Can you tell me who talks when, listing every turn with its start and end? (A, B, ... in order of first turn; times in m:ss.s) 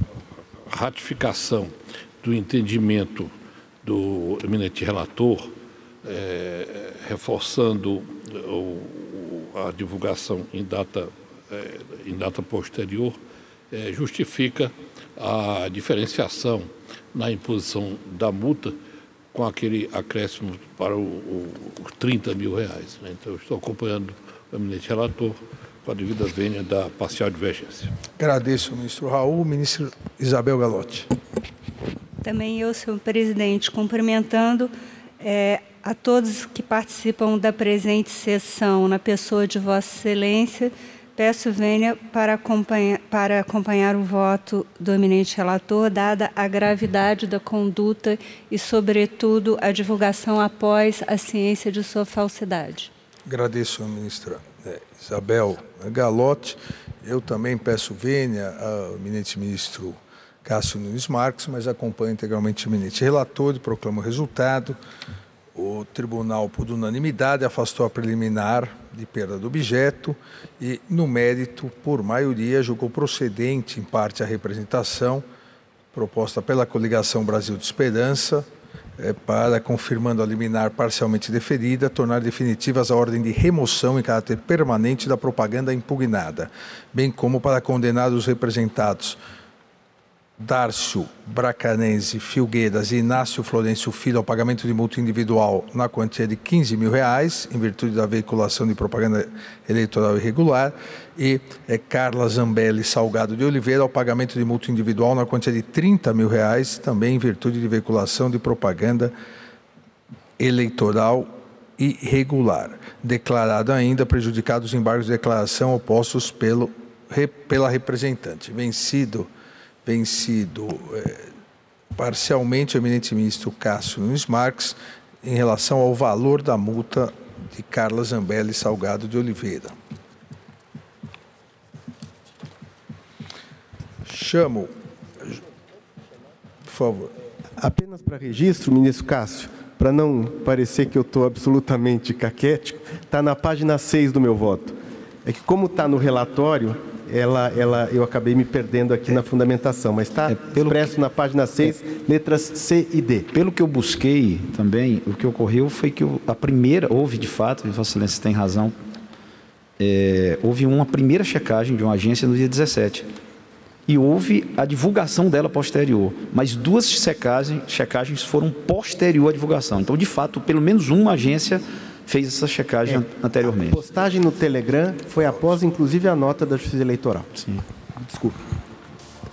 0:00.7-0:13.2 A
0:13.7-0:18.8 A
0:19.3-0:28.0 A
0:28.2-0:31.1 B
0:32.2-0:52.9 C
0:53.2-1:04.8 B
1:05.5-1:15.2 B
1:15.9-1:18.5 B
1:19.0-1:29.2 B
1:30.4-1:49.1 B
1:50.4-1:59.3 B
1:59.8-2:01.3 B
2:02.0-2:09.7 B
2:14.0-2:15.4 B
2:16.6-2:17.1 B
2:17.6-2:33.3 D
2:30.3-2:30.9 E
2:33.3-2:38.8 E
2:39.8-2:43.1 E
2:43.9-2:53.8 E
2:53.5-2:57.4 D
2:58.0-2:58.4 D